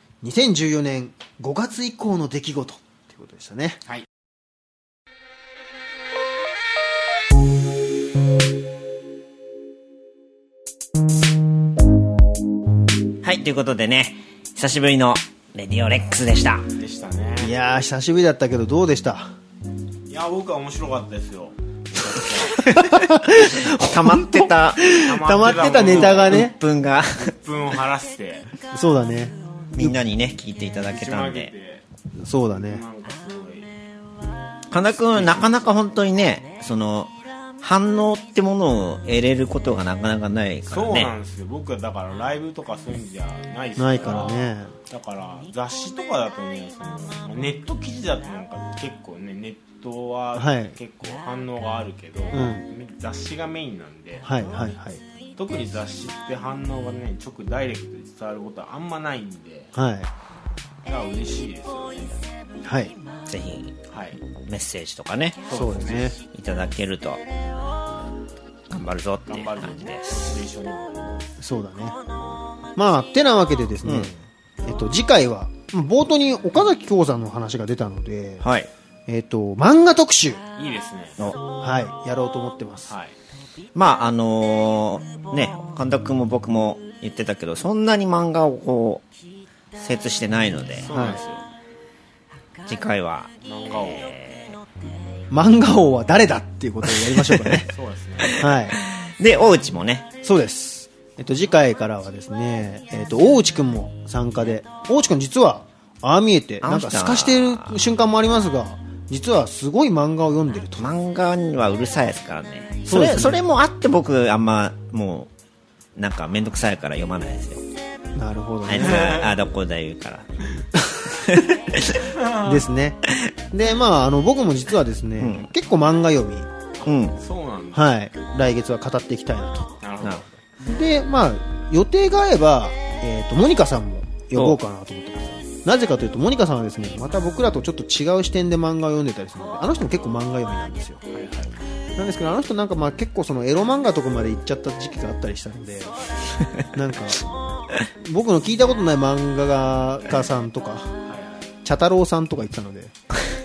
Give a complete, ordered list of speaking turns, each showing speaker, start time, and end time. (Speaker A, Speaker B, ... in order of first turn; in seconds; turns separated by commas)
Speaker A: 0.2-3.8, Speaker B: 13.2-16.7, Speaker C: 16.8-17.5, Speaker A: 17.4-19.3, Speaker C: 20.1-22.6, Speaker A: 22.6-26.6, Speaker B: 23.8-24.9, Speaker C: 25.0-26.4, Speaker B: 25.6-27.3, Speaker C: 27.2-28.5, Speaker A: 28.7-30.0, Speaker B: 29.7-31.5, Speaker C: 30.9-31.8, Speaker A: 32.2-32.8, Speaker C: 32.5-33.7, Speaker B: 34.7-41.1, Speaker C: 35.1-35.5, Speaker C: 40.7-54.3, Speaker A: 43.8-44.7, Speaker A: 50.3-50.8, Speaker A: 52.3-52.6, Speaker A: 54.2-55.0, Speaker C: 55.4-59.7, Speaker A: 59.7-60.1, Speaker C: 60.8-62.2, Speaker A: 62.6-62.9, Speaker B: 63.3-63.8, Speaker C: 63.9-64.2, Speaker B: 64.3-65.5, Speaker C: 65.5-66.1, Speaker A: 65.5-66.1, Speaker B: 66.3-67.2, Speaker B: 68.7-70.5, Speaker C: 69.3-71.3, Speaker A: 71.4-72.0, Speaker A: 72.8-78.5, Speaker B: 73.8-74.1, Speaker B: 78.4-78.7, Speaker A: 79.1-80.4, Speaker C: 80.6-81.2, Speaker A: 81.6-82.9, Speaker C: 82.9-83.1, Speaker B: 83.7-89.0, Speaker B: 89.7-91.2, Speaker C: 90.8-91.4, Speaker A: 90.9-91.2, Speaker B: 92.7-94.6, Speaker C: 93.4-94.1, Speaker A: 95.3-97.7, Speaker B: 97.0-97.6, Speaker C: 97.7-98.5, Speaker B: 98.3-100.1, Speaker A: 98.4-98.8, Speaker A: 100.2-111.0, Speaker B: 106.6-107.8, Speaker B: 110.8-115.3, Speaker A: 112.9-113.4, Speaker B: 116.0-117.6, Speaker A: 118.2-119.2, Speaker B: 118.6-120.3, Speaker C: 118.8-119.3, Speaker B: 121.2-121.9, Speaker C: 122.0-122.7, Speaker A: 122.5-123.0, Speaker A: 123.5-126.5, Speaker B: 125.2-125.5, Speaker C: 126.8-127.9, Speaker B: 126.8-127.2, Speaker A: 127.7-129.7, Speaker C: 129.8-130.4, Speaker A: 130.7-141.0, Speaker C: 141.1-141.6, Speaker A: 141.9-146.0, Speaker A: 146.7-147.2, Speaker A: 148.0-150.9, Speaker C: 151.0-151.5, Speaker A: 151.6-152.9